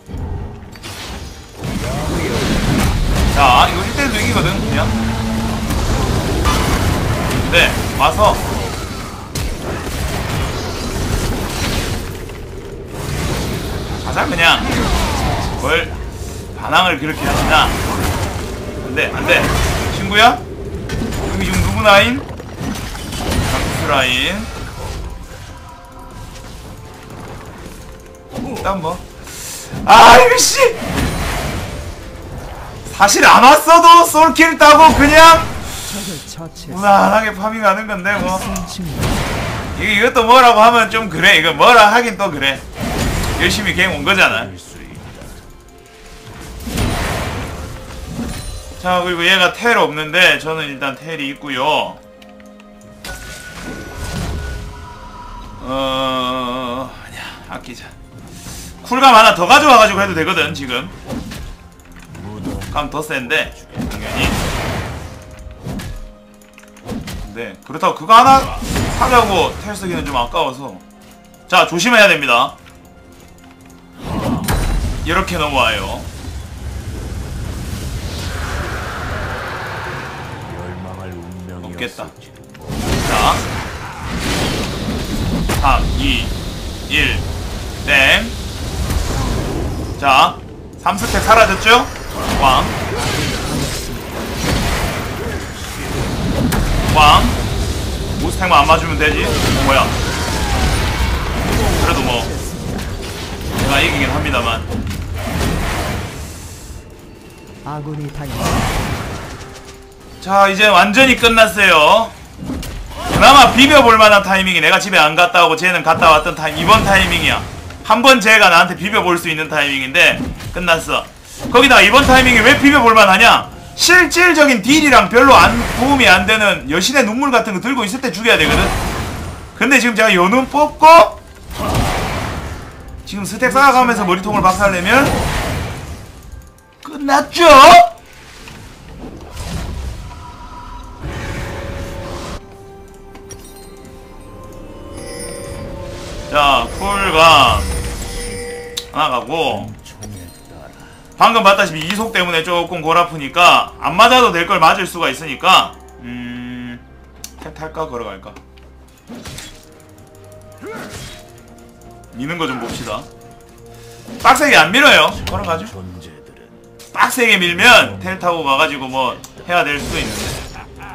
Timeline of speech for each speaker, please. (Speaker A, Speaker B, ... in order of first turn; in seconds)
Speaker A: 1.6-3.0, 8.5-9.1, 13.3-13.9, 24.6-25.6, 43.8-45.5, 62.1-64.3, 80.2-83.4, 94.9-96.5, 147.9-151.1, 164.8-166.8, 167.4-168.5
Speaker B: 3.3-5.0, 7.4-8.4, 14.0-14.8, 15.6-16.0, 16.6-17.8, 18.8-20.4, 21.2-22.3, 23.3-24.5, 28.6-30.8, 32.9-35.6, 36.7-38.5, 39.8-42.6, 43.4-44.5, 48.8-52.0, 55.6-57.9, 58.8-60.9, 62.7-64.4, 67.2-70.8, 71.5-72.6, 75.0-76.1, 81.6-82.1, 83.0-83.4, 85.6-86.3, 86.9-87.2, 87.8-88.4, 90.0-92.8, 96.9-97.4, 98.1-100.0, 101.7-102.3, 103.6-104.7, 110.2-112.2, 113.1-128.8, 129.6-131.2, 133.1-135.2, 136.8-137.9, 146.3-147.8, 148.9-149.7, 151.2-156.8, 157.4-158.4, 162.1-163.1, 164.2-165.7, 166.9-170.4
Speaker C: 14.6-16.1, 35.8-37.0, 38.1-39.5, 92.8-94.5, 101.4-103.0, 107.6-109.0, 133.4-135.2